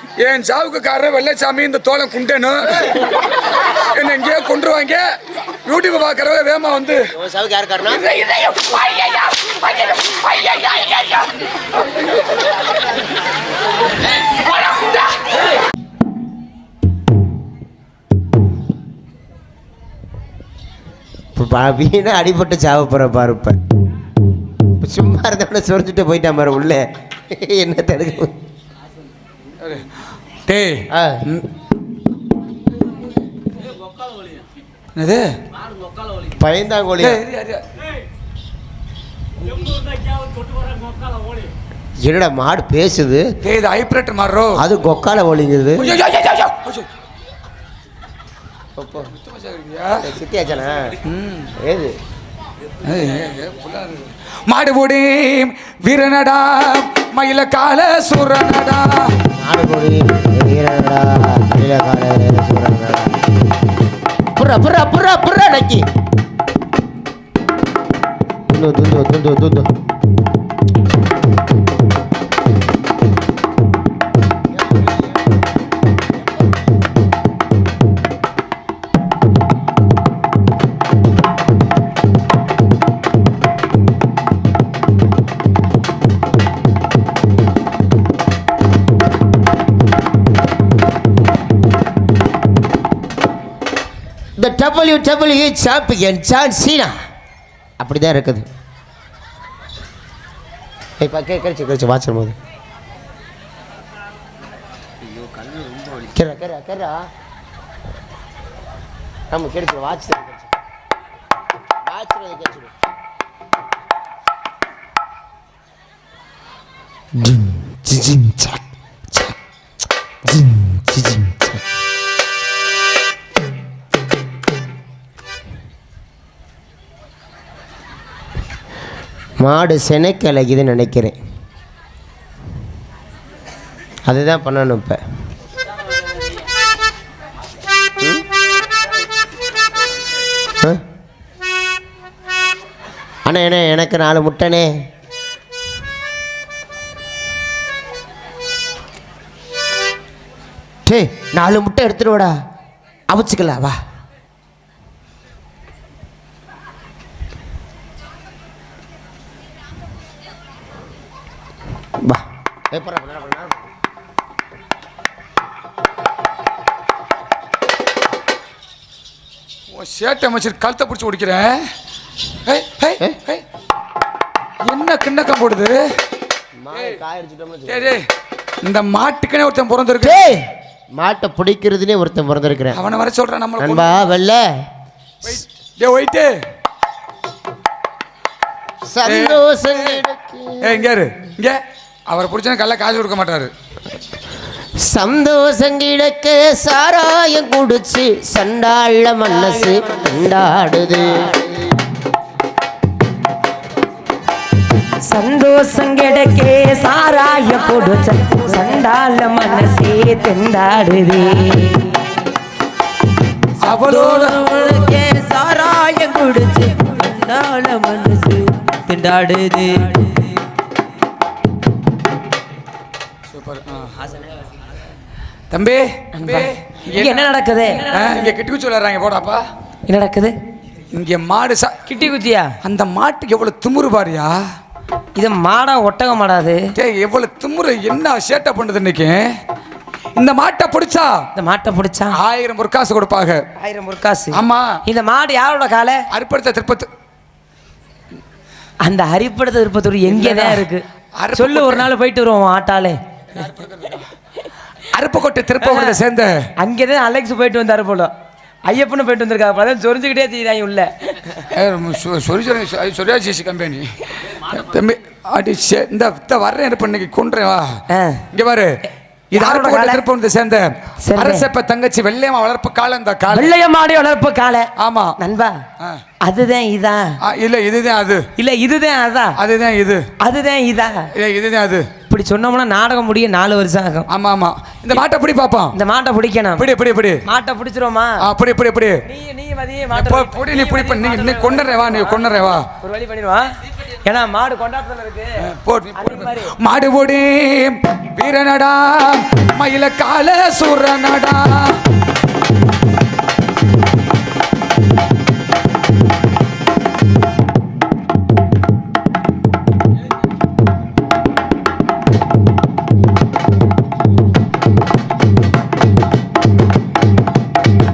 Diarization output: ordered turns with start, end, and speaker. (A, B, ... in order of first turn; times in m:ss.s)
0:00.2-0:07.1 A
0:07.1-0:08.1 B
0:08.0-0:11.5 A
0:14.6-0:15.2 A
0:21.4-0:23.6 B
0:24.8-0:28.3 B
0:29.6-0:29.9 A
0:30.5-0:31.5 A
0:30.9-0:31.2 B
0:35.0-0:35.4 A
0:36.3-0:37.2 B
0:37.0-0:37.7 A
0:42.0-0:43.3 B
0:43.4-0:44.6 A
0:44.6-0:46.0 B
0:45.8-0:46.9 A
0:48.8-0:49.1 B
0:49.2-0:50.0 A
0:50.0-0:51.0 B
0:51.1-0:51.5 A
0:51.6-0:52.0 B
0:52.8-0:59.2 A
0:59.3-1:03.2 B
1:04.4-1:05.9 B
1:08.5-1:09.7 B
1:14.6-1:15.0 B
1:34.4-1:36.9 B
1:37.8-1:38.5 B
1:41.0-1:42.4 B
1:45.0-1:47.1 B
1:49.3-1:50.5 B
1:51.9-1:52.7 B
1:57.2-1:58.6 B
2:00.3-2:01.6 B
2:09.4-2:11.2 B
2:14.1-2:15.0 B
2:23.2-2:24.7 B
2:30.9-2:32.3 B
2:33.1-2:33.8 B
2:42.0-2:43.7 B
2:49.7-2:51.6 A
2:52.5-2:53.4 A
2:54.6-2:55.8 A
2:56.6-2:58.0 B
2:56.7-2:57.0 A
2:57.7-2:58.1 A
2:58.6-3:00.2 A
3:00.0-3:02.8 B
3:02.7-3:04.1 A
3:03.6-3:04.5 B
3:05.2-3:06.3 A
3:08.9-3:10.8 B
3:09.1-3:10.0 A
3:10.6-3:13.5 A
3:14.8-3:21.5 B
3:25.1-3:31.9 C
3:33.6-3:34.9 A
3:33.7-3:40.4 D
3:43.3-3:44.0 A
3:45.5-3:47.3 A
3:46.1-3:48.0 C
3:47.9-3:49.5 A
3:49.9-3:50.4 C
3:50.9-3:52.0 A
3:51.9-3:52.5 C
3:52.6-3:54.4 A
3:55.2-3:56.6 C
3:56.8-3:59.2 A
4:00.2-4:01.1 A
4:01.4-4:02.1 C
4:02.2-4:03.4 A
4:03.6-4:06.0 C
4:04.3-4:04.8 A
4:06.1-4:06.9 A
4:08.8-4:10.8 C
4:10.1-4:11.9 A
4:11.4-4:13.0 C
4:13.3-4:14.1 A
4:14.8-4:16.5 A
4:15.6-4:16.0 C
4:16.6-4:18.1 C
4:18.7-4:21.4 C
4:21.5-4:28.8 A
4:27.9-4:28.2 C
4:29.3-4:30.0 C
4:29.3-4:33.5 A
4:31.0-4:31.5 C
4:33.3-4:35.6 C
4:34.8-4:35.2 A
4:36.2-4:37.2 C
4:37.2-4:38.3 A
4:38.4-4:39.4 C
4:39.4-4:40.0 A
4:40.2-4:41.1 C
4:41.2-4:41.9 A
4:42.1-4:44.1 C
4:44.1-4:45.8 A
4:45.7-4:46.7 C
4:46.6-4:47.2 A
4:47.2-4:48.2 C
4:48.2-4:49.0 A
4:49.1-4:55.3 C
4:49.9-4:52.7 A
4:55.4-5:01.8 A
4:55.9-4:56.5 C